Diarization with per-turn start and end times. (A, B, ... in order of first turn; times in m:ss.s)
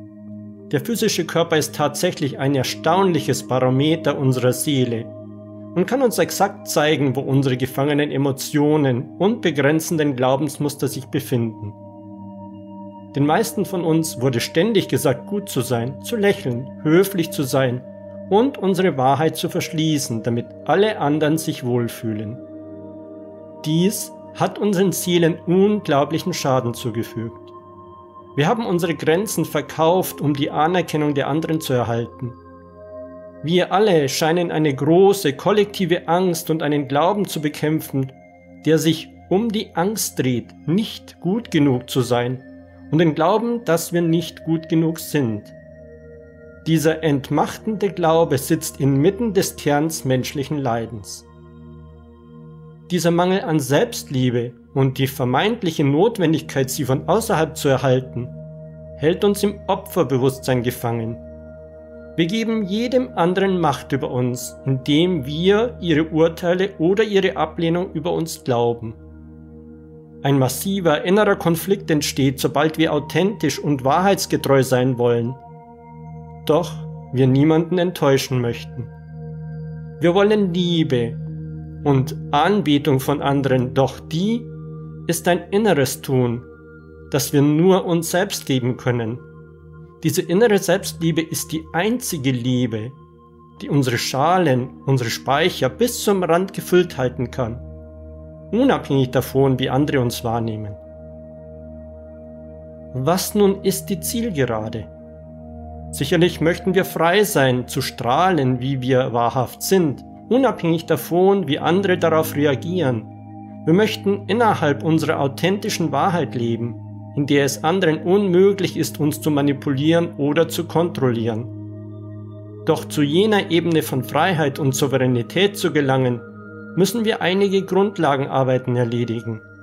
0:00.7-0:05.1 A
0:05.7-0:11.8 A
0:13.1-0:22.4 A
0:23.6-0:27.5 A
0:28.4-0:32.4 A
0:33.4-0:45.5 A
0:46.6-0:51.3 A
0:52.9-0:58.4 A
0:59.0-1:01.2 A
1:02.2-1:09.0 A
1:10.2-1:15.4 A
1:16.4-1:18.9 A
1:20.0-1:21.2 A
1:21.8-1:24.5 A
1:25.1-1:26.5 A
1:27.1-1:29.2 A
1:30.0-1:33.0 A
1:33.6-1:37.6 A
1:38.5-1:40.8 A
1:42.9-1:44.9 A
1:45.9-1:53.1 A
1:53.6-2:01.5 A
2:02.6-2:09.4 A